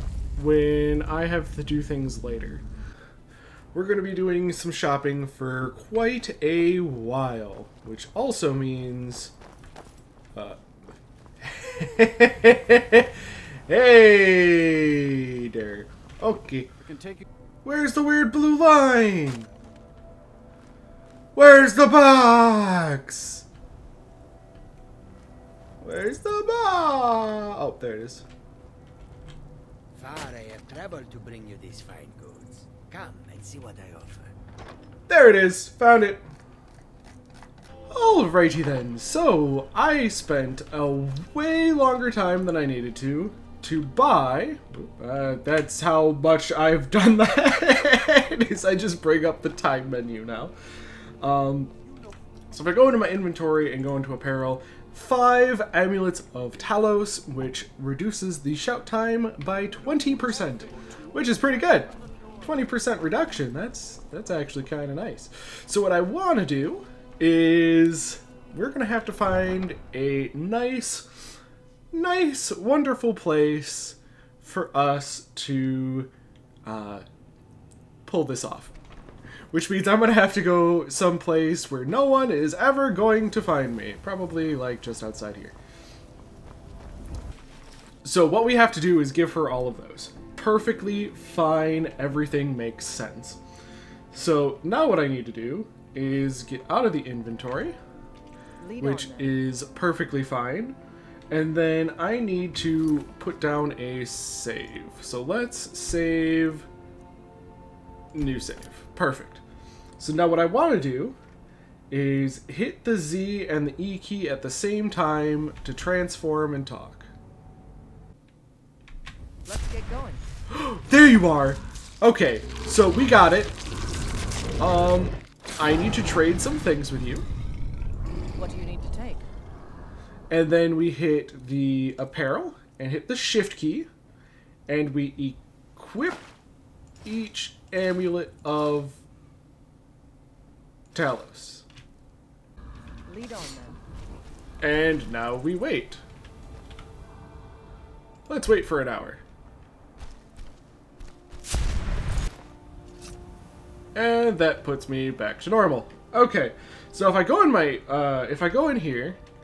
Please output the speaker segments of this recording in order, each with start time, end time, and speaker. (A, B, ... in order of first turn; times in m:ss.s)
0:00.4-0:02.6 A
0:03.7-0:09.3 A
0:11.4-0:16.7 A
0:16.9-0:17.2 B
0:17.6-0:19.5 A
0:21.3-0:23.4 A
0:25.8-0:28.2 A
0:29.9-0:34.3 B
0:35.1-0:36.2 A
0:37.9-0:50.5 A
0:51.2-0:51.7 A
0:52.5-1:11.1 A
1:11.9-1:16.1 A
1:16.6-1:17.0 A
1:18.0-1:18.7 A
1:19.5-1:25.5 A
1:28.0-1:33.4 A
1:34.1-1:37.8 A
1:38.6-1:39.4 C
1:38.8-1:40.8 A
1:41.3-1:46.7 A
1:48.1-1:49.4 A
1:50.0-1:51.2 A
1:51.9-1:57.1 A
1:59.4-2:00.2 C
2:00.5-2:03.6 A
2:04.6-2:07.3 A
2:08.3-2:09.3 C
2:10.3-2:13.9 A
2:14.7-2:16.2 A
2:17.0-2:19.0 A
2:20.9-2:21.6 A
2:23.0-2:23.8 C
2:24.6-2:26.0 A
2:28.3-2:29.2 A
2:33.9-2:39.2 A